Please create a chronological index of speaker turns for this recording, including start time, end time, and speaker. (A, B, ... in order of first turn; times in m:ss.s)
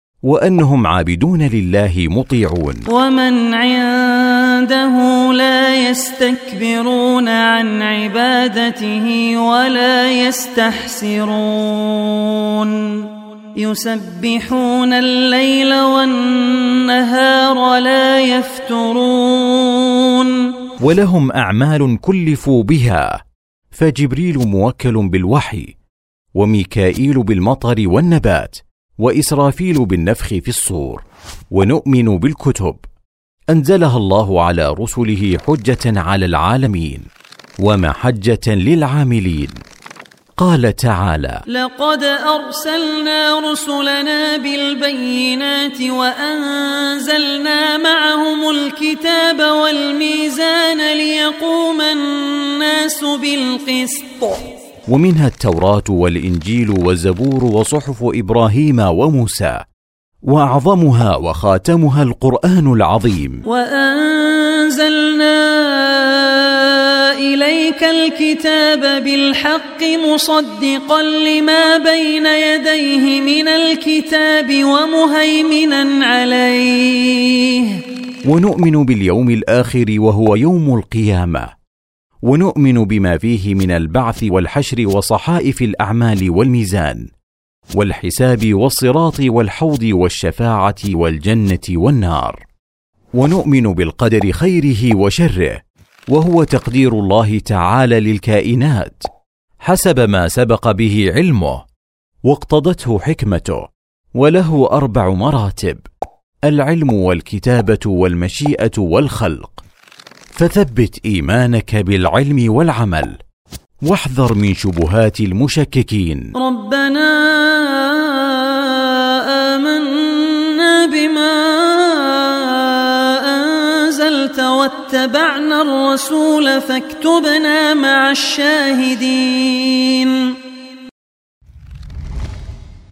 0:00.2-0:02.8 A
0:02.9-0:20.5 B
0:20.8-0:23.2 A
0:23.7-0:25.7 A
0:26.4-0:32.8 A
0:33.5-0:37.1 A
0:37.6-0:39.6 A
0:40.4-0:41.4 A
0:41.5-0:54.4 B
0:54.9-0:59.6 A
1:00.3-1:03.4 A
1:03.5-1:17.8 B
1:18.3-1:21.5 A
1:22.2-1:27.1 A
1:27.8-1:32.4 A
1:33.2-1:39.1 A
1:39.6-1:41.6 A
1:42.2-1:45.8 A
1:46.4-1:49.6 A
1:50.3-1:53.2 A
1:53.8-1:56.3 A
1:56.4-2:10.4 B